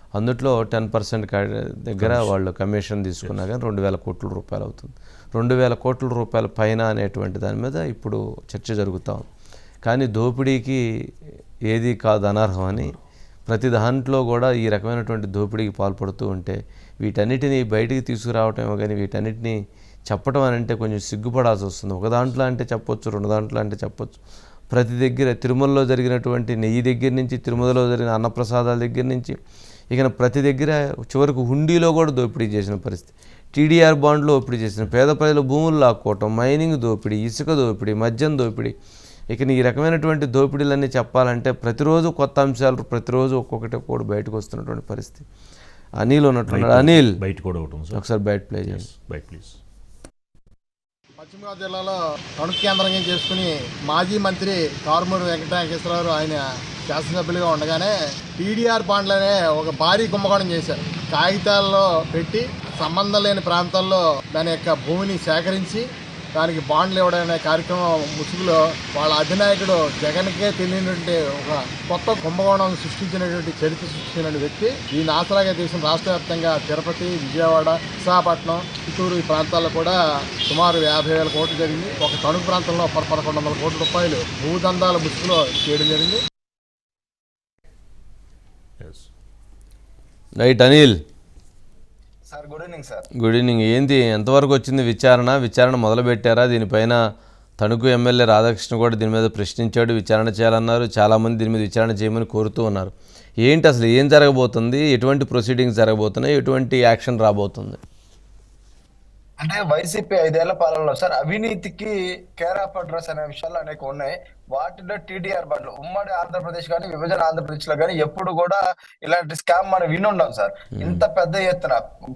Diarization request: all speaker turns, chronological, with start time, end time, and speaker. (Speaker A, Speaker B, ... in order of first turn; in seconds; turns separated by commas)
Speaker A: 0.2-9.2, Speaker B: 2.0-2.4, Speaker A: 9.8-10.8, Speaker A: 11.7-12.9, Speaker A: 13.5-19.6, Speaker A: 20.1-24.2, Speaker A: 24.7-29.4, Speaker A: 29.9-38.7, Speaker A: 39.3-45.2, Speaker A: 46.0-47.1, Speaker B: 46.5-48.0, Speaker A: 47.9-48.9, Speaker B: 48.6-49.6, Speaker C: 51.2-86.2, Speaker B: 88.8-89.1, Speaker A: 90.4-91.0, Speaker D: 92.3-93.1, Speaker A: 93.2-97.0, Speaker A: 97.6-102.9, Speaker A: 103.4-107.8, Speaker D: 109.4-121.8, Speaker A: 120.8-121.0